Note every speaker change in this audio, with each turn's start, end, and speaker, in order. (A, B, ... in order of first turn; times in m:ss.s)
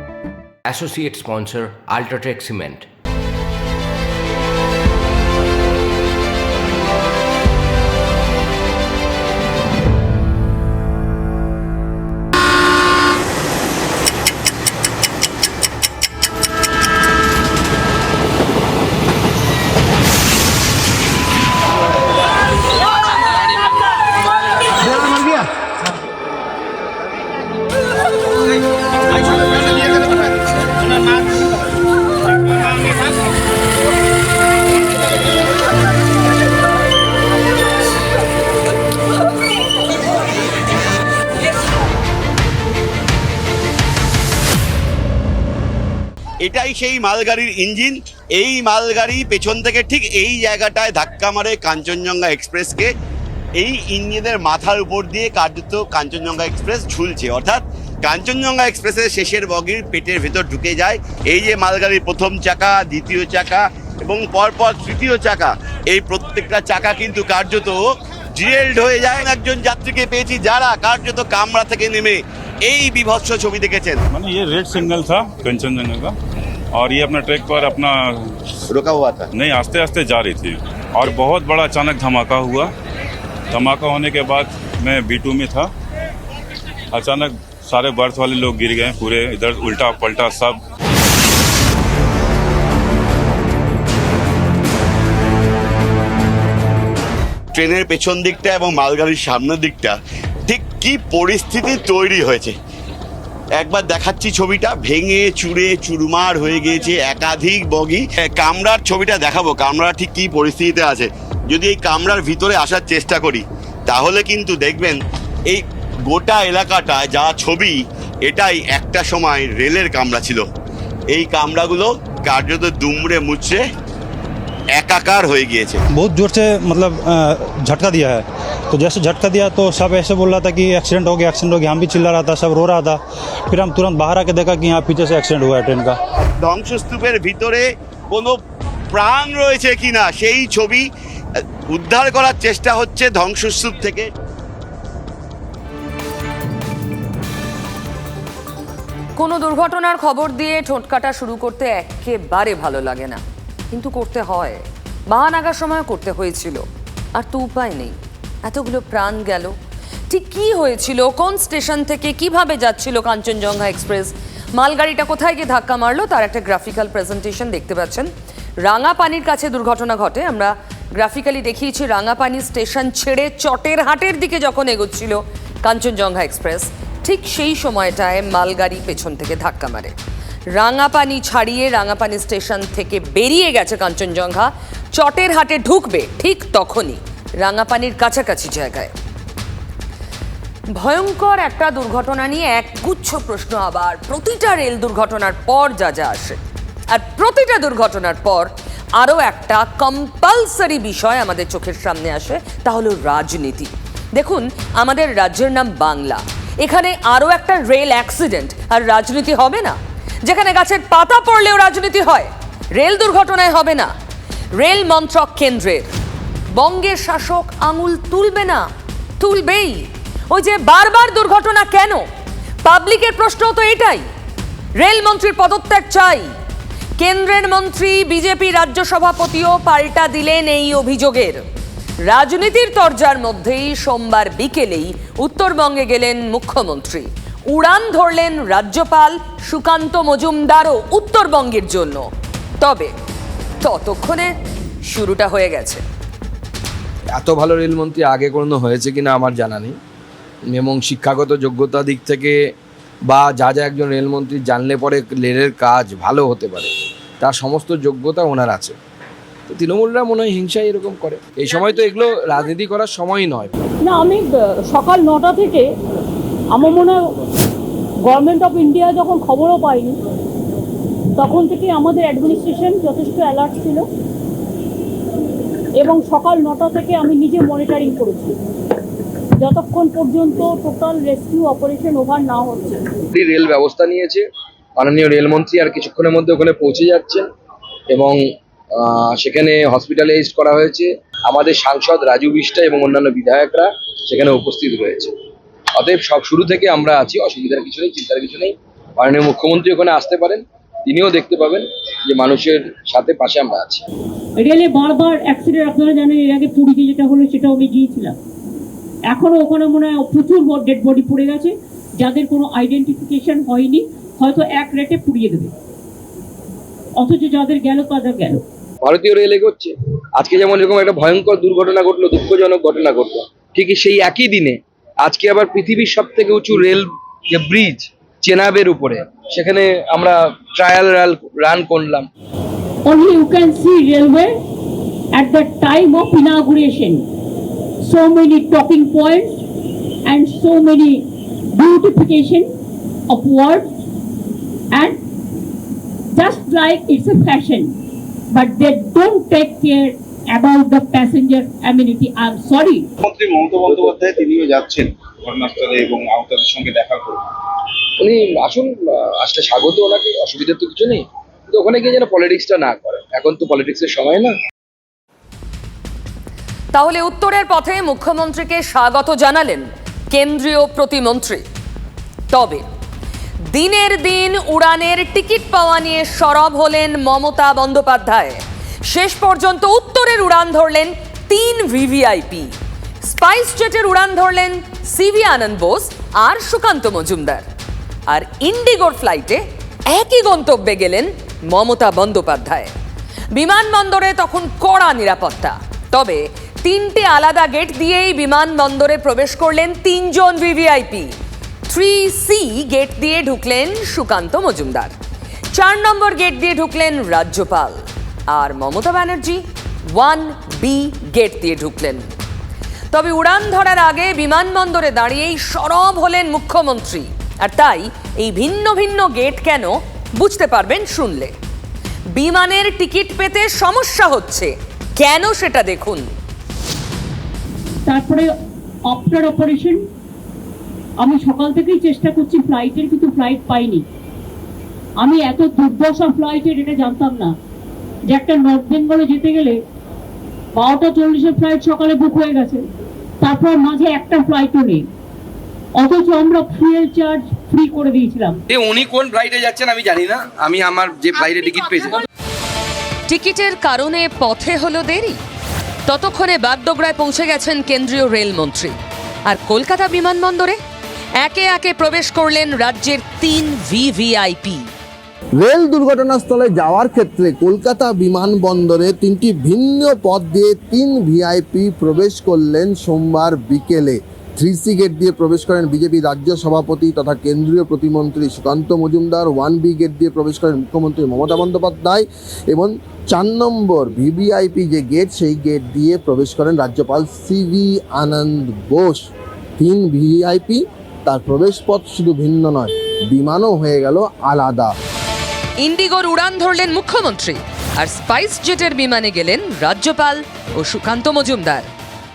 0:00.6-0:02.8 A
0:46.4-0:52.9 B
0:53.6-1:14.0 B
1:14.1-1:16.1 C
1:16.7-1:18.1 C
1:18.7-1:19.3 B
1:19.3-1:22.7 C
1:23.5-1:25.7 C
1:26.9-1:30.6 C
1:37.5-1:42.5 B
1:43.6-2:00.5 B
2:01.1-2:03.6 B
2:04.7-2:05.8 B
2:05.9-2:16.0 D
2:16.4-2:18.4 B
2:18.9-2:20.9 B
2:21.7-2:24.1 B
2:29.2-2:33.2 E
2:33.7-2:39.6 E
2:40.1-2:48.1 E
2:48.6-2:59.9 E
3:00.5-3:08.9 E
3:10.7-3:16.4 E
3:16.9-3:33.9 E
3:34.6-3:35.9 E
3:36.5-3:38.7 E
3:39.2-3:42.0 E
3:42.6-3:44.0 E
3:44.8-3:46.3 E
3:47.0-3:51.4 E
3:52.1-4:02.0 E
4:02.6-4:02.9 E
4:03.6-4:04.3 E
4:04.9-4:05.8 E
4:07.1-4:09.7 F
4:10.5-4:12.4 F
4:13.1-4:18.7 F
4:19.5-4:23.5 F
4:23.8-4:25.7 G
4:26.5-4:27.1 G
4:28.0-4:30.0 G
4:31.2-4:33.9 G
4:35.8-4:38.4 G
4:39.4-4:43.0 G
4:43.1-4:44.2 F
4:44.8-4:47.2 F
4:47.9-4:48.2 F
4:48.7-4:55.1 F
4:55.8-5:03.8 F
5:04.4-5:08.2 G
5:09.1-5:15.5 G
5:17.0-5:18.4 G
5:18.8-5:32.1 F
5:32.9-5:34.3 G
5:35.1-5:37.0 G
5:37.8-5:39.4 G
5:40.1-5:42.5 G
5:43.1-5:43.7 G
5:44.7-5:45.0 G
5:46.1-5:47.7 G
5:48.3-5:52.8 G
5:53.0-5:57.3 H
5:58.0-6:04.3 F
6:06.7-6:11.4 E
6:12.3-6:12.6 E
6:13.5-6:27.4 E
6:28.1-6:32.7 E
6:33.3-6:41.1 E
6:41.7-6:44.9 E
6:45.5-6:52.0 E
6:52.9-7:01.3 E
7:02.1-7:06.1 E
7:07.9-7:08.3 G
7:08.9-7:09.8 G
7:11.0-7:13.8 G
7:15.0-7:17.3 G
7:18.1-7:19.6 G
7:20.5-7:22.6 G
7:23.2-7:24.8 G
7:25.8-7:28.4 G
7:28.5-7:32.0 F
7:33.1-7:35.2 E
7:35.9-7:40.6 E
7:41.2-7:44.7 E
7:45.4-8:14.7 I
8:15.6-8:21.7 E